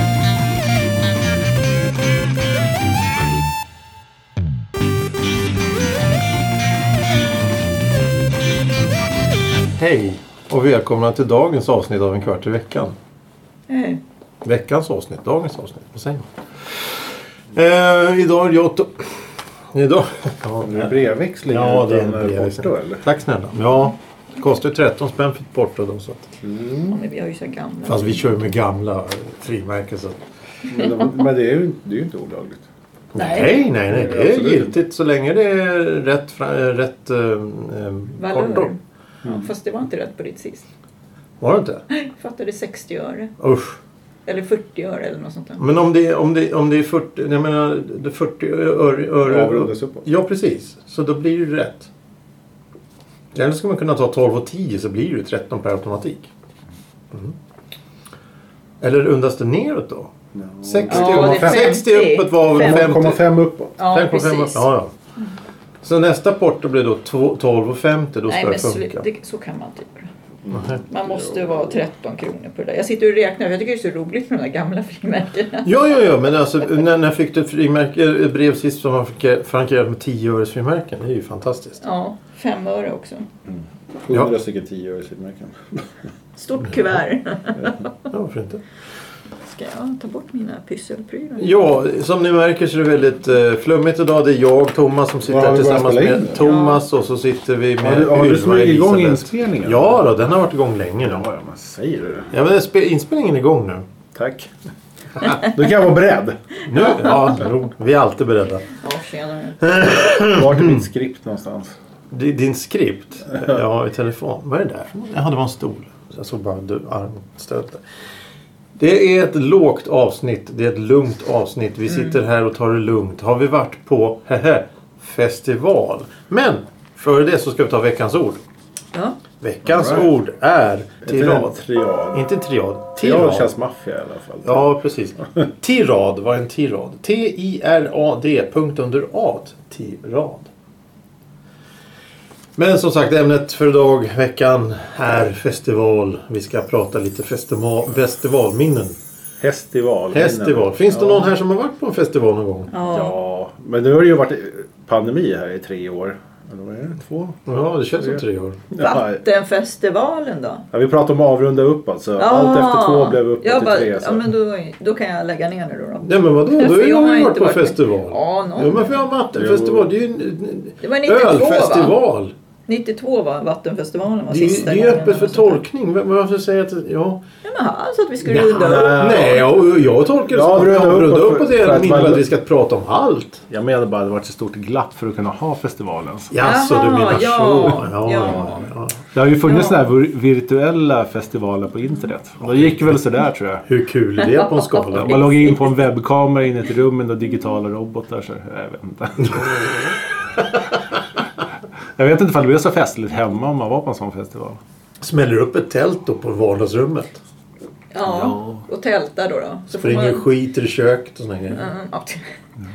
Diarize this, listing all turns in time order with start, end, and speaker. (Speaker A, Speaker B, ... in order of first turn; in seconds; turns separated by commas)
Speaker A: 9.8-12.9, Speaker B: 13.7-14.0, Speaker A: 14.4-16.2, Speaker A: 17.5-19.2, Speaker A: 19.7-20.9, Speaker C: 20.6-23.0, Speaker A: 21.5-26.3, Speaker C: 26.4-26.9, Speaker B: 26.9-28.3, Speaker A: 27.9-30.2, Speaker C: 30.7-32.6, Speaker A: 33.1-38.7, Speaker B: 33.1-33.7, Speaker C: 33.9-34.8, Speaker B: 38.2-40.7, Speaker A: 41.4-41.8, Speaker B: 41.9-43.3, Speaker A: 43.4-43.8, Speaker B: 44.2-45.6, Speaker A: 45.6-51.9, Speaker C: 49.2-50.0, Speaker A: 53.3-56.3, Speaker A: 58.8-63.2, Speaker C: 60.3-61.7, Speaker B: 60.9-63.1, Speaker C: 62.4-63.8, Speaker B: 63.8-64.7, Speaker A: 63.9-64.9, Speaker A: 65.8-69.0, Speaker B: 68.3-70.1, Speaker C: 70.4-71.7, Speaker A: 70.5-70.8, Speaker B: 70.8-75.7, Speaker A: 75.6-81.8, Speaker B: 81.8-83.3, Speaker C: 83.5-85.9, Speaker B: 86.3-87.9, Speaker A: 88.1-88.6, Speaker B: 89.5-91.5, Speaker A: 91.4-101.2, Speaker C: 95.2-96.4, Speaker B: 96.4-96.8, Speaker C: 97.8-100.0, Speaker C: 101.0-102.3, Speaker A: 102.3-103.8, Speaker C: 104.1-104.5, Speaker C: 105.2-106.5, Speaker A: 106.7-108.7, Speaker B: 108.7-109.6, Speaker A: 109.6-110.8, Speaker C: 109.8-111.7, Speaker A: 112.1-117.8, Speaker A: 118.8-128.4, Speaker B: 121.9-122.2, Speaker A: 129.4-131.5, Speaker C: 129.7-130.1, Speaker C: 131.0-132.3, Speaker A: 132.1-133.5, Speaker C: 133.0-134.7, Speaker A: 134.4-140.5, Speaker A: 142.6-148.9, Speaker C: 149.4-151.3, Speaker A: 150.1-152.7, Speaker B: 152.7-153.2, Speaker C: 152.9-159.2, Speaker A: 157.4-158.6, Speaker B: 158.8-160.6, Speaker C: 160.7-164.3, Speaker B: 162.2-168.9, Speaker A: 166.0-172.3, Speaker C: 169.3-169.9, Speaker B: 170.8-172.0, Speaker B: 172.7-175.6, Speaker A: 174.3-177.2, Speaker B: 177.4-179.2, Speaker C: 178.3-179.6, Speaker A: 178.3-183.4, Speaker C: 180.3-182.2, Speaker C: 183.5-186.3, Speaker A: 186.3-189.0, Speaker B: 186.4-188.7, Speaker C: 189.1-193.6, Speaker B: 189.4-189.9, Speaker A: 193.7-195.3, Speaker B: 194.2-195.6, Speaker C: 194.9-199.9, Speaker C: 201.9-204.6, Speaker A: 205.0-207.2, Speaker B: 207.9-210.2, Speaker C: 208.0-208.7, Speaker A: 209.7-211.7, Speaker B: 211.5-212.3